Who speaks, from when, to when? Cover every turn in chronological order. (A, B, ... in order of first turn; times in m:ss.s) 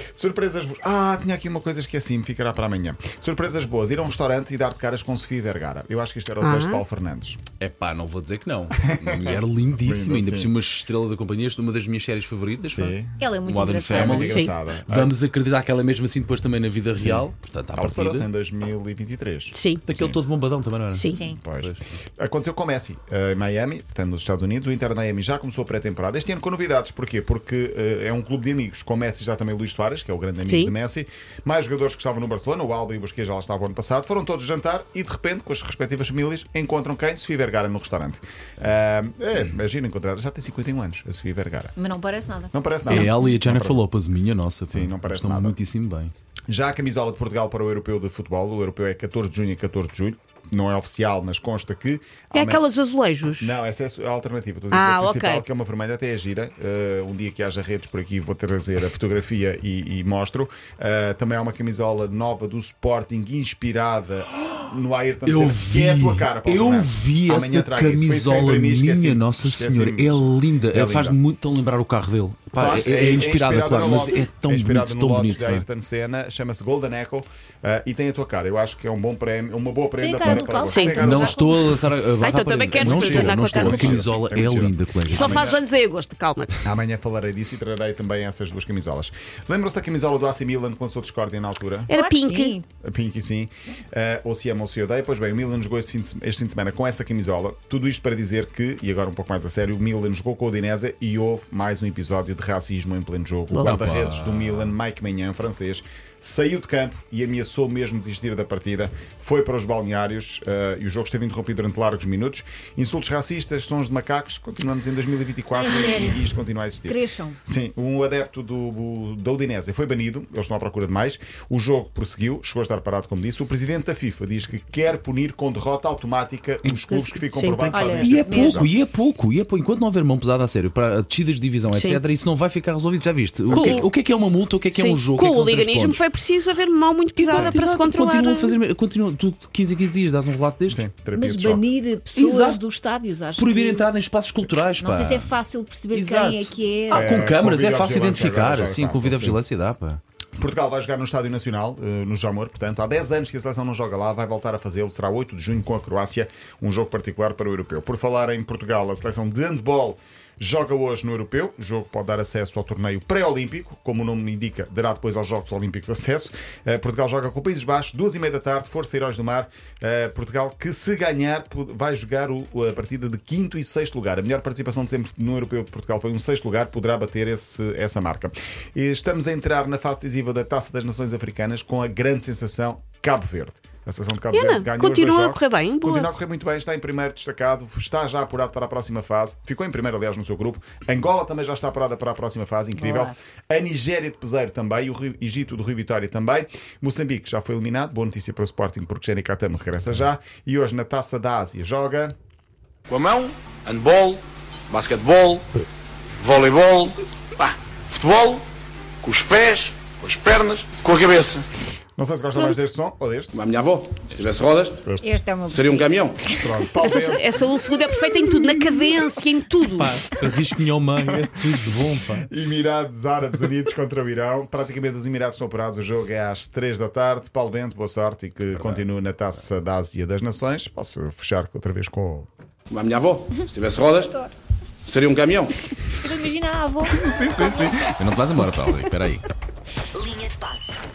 0:00.1-0:07.4 A
0:06.4-0:06.8 B
0:07.6-0:18.3 C
0:08.9-0:10.5 A
0:12.7-0:13.2 A
0:13.2-0:14.5 D
0:13.9-0:15.1 A
0:17.0-0:20.2 A
0:19.5-0:19.8 B
0:19.8-0:21.8 C
0:20.9-0:21.2 B
0:21.1-0:21.4 D
0:21.2-0:41.7 A
0:30.4-0:30.7 B
0:41.8-0:42.5 D
0:42.5-0:43.8 A
0:42.9-0:46.1 C
0:44.7-0:45.6 A
0:46.5-0:52.6 A
0:52.3-0:53.6 B
0:53.3-1:11.2 A
0:54.7-0:55.4 B
1:05.2-1:15.6 C
1:12.5-1:21.4 A
1:20.0-1:21.6 D
1:20.4-1:21.1 B
1:20.9-1:25.6 C
1:22.2-1:24.1 B
1:22.8-1:25.6 A
1:25.1-1:26.6 B
1:26.6-1:31.9 A
1:31.9-1:32.6 B
1:31.9-1:32.6 D
1:32.8-2:08.7 A
1:43.5-1:43.8 B
1:43.6-1:44.8 C
1:55.6-1:56.2 D
1:56.8-1:57.4 D
2:07.2-2:07.9 B
2:07.7-2:08.7 D
2:08.0-2:16.0 C
2:11.7-2:12.0 B
2:13.5-2:13.8 A
2:13.5-2:13.9 B
2:14.7-2:18.6 B
2:17.2-2:20.8 C
2:17.3-2:17.6 A
2:20.7-2:21.7 A
2:21.1-2:23.9 D
2:22.1-2:22.6 C
2:23.4-2:25.3 C
2:24.8-2:27.3 D
2:25.9-2:30.0 C
2:26.9-2:29.4 A
2:30.4-3:22.1 A
3:04.3-3:06.1 B
3:12.8-3:13.1 D
3:22.9-3:25.6 E
3:26.2-3:28.4 E
3:29.0-3:31.5 E
3:32.0-3:33.3 A
3:33.3-3:34.9 E
3:35.0-3:36.7 D
3:35.5-3:36.2 E
3:36.4-3:37.4 A
3:36.8-3:40.0 B
3:39.7-3:42.3 C
3:42.3-3:52.3 A
3:48.5-3:48.8 C
3:52.7-3:54.2 E
3:54.8-3:55.6 E
3:56.0-3:57.7 D
3:57.0-3:59.3 C